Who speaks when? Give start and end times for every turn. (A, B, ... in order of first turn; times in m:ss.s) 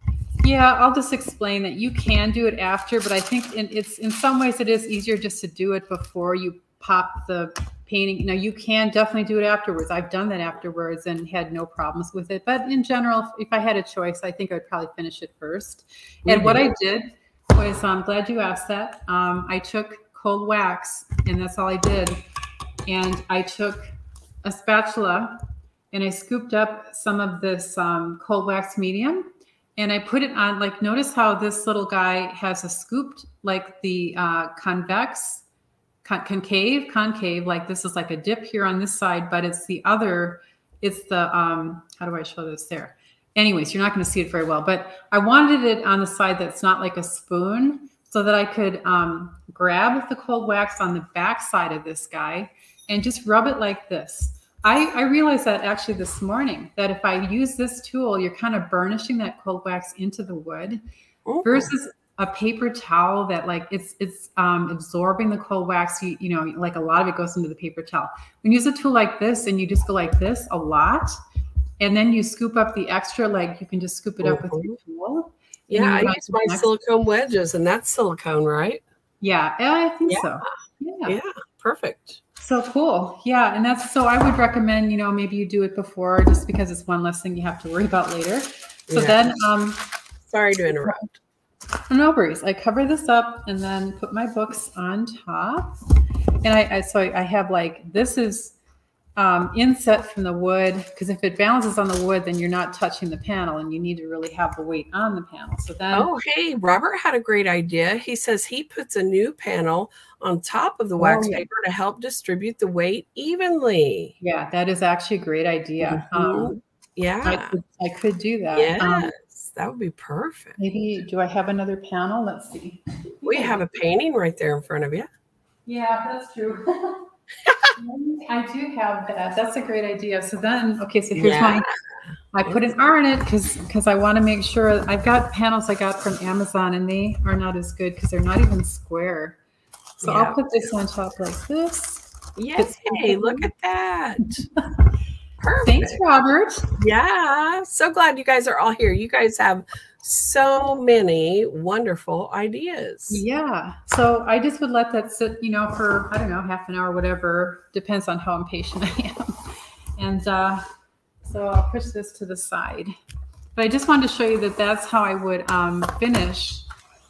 0:00.4-0:22.2 A
0:16.3-0:16.7 B
0:22.9-0:23.9 A
0:24.4-0:25.4 A
0:25.9-0:29.3 A
0:29.8-0:35.4 A
0:36.0-1:00.8 A
1:01.3-1:01.7 B
1:01.4-1:11.2 A
1:11.8-1:16.7 A
1:14.2-1:14.8 B
1:15.7-1:18.8 B
1:19.2-1:21.2 A
1:21.1-1:22.2 B
1:22.4-1:29.9 A
1:28.9-1:29.3 B
1:30.3-1:31.2 B
1:30.8-1:31.1 A
1:31.9-1:35.7 A
1:36.4-1:38.6 A
1:39.2-1:46.1 A
1:45.9-1:54.1 B
1:51.0-1:51.4 A
1:54.2-1:56.6 A
1:55.8-1:57.5 B
1:57.2-1:59.1 A
1:58.5-2:00.6 B
2:00.6-2:03.6 A
2:03.2-2:05.1 B
2:05.7-2:07.0 A
2:07.8-2:11.6 A
2:11.2-2:11.7 B
2:12.3-2:19.4 A
2:20.0-2:20.4 B
2:20.0-2:23.5 A
2:22.4-2:24.4 B
2:25.4-2:26.0 B
2:25.7-2:26.7 A
2:26.8-2:33.2 B
2:33.1-2:39.4 A
2:40.0-2:40.6 A
2:41.2-2:42.9 A
2:43.6-2:46.7 A